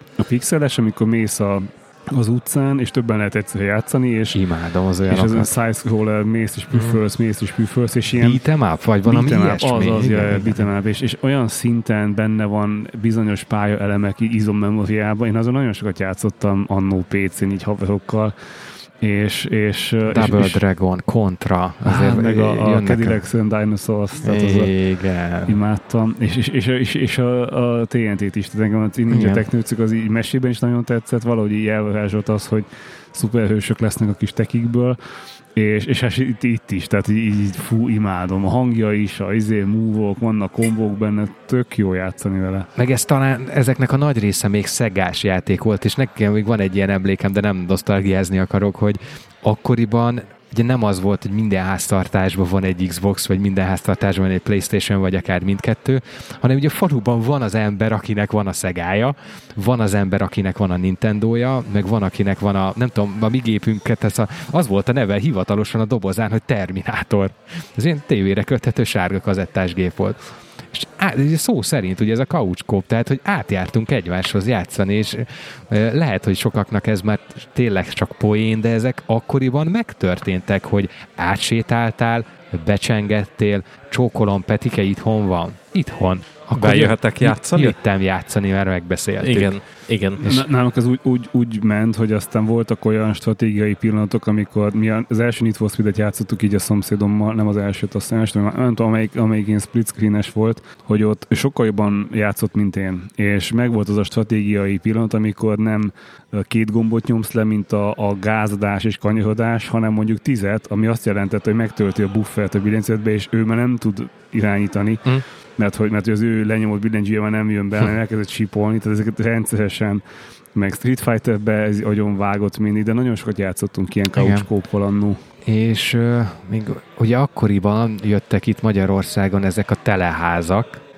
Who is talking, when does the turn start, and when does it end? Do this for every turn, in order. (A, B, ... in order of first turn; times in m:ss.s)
0:00.2-0:04.4 A
0:04.3-0:05.5 B
0:05.1-0:08.4 A
0:06.7-0:07.0 B
0:08.1-0:10.7 B
0:09.1-0:18.3 A
0:19.0-0:20.6 A
0:20.1-0:23.2 B
0:21.8-0:24.7 A
0:24.2-0:25.6 B
0:25.5-0:35.0 A
0:29.1-0:29.4 B
0:35.6-0:42.7 A
0:42.8-1:10.2 B
1:10.7-1:29.6 B
1:26.6-1:27.8 C
1:29.2-1:30.4 C
1:30.2-2:00.0 A
2:00.6-2:05.2 A
2:04.1-2:04.5 B
2:05.5-2:10.8 B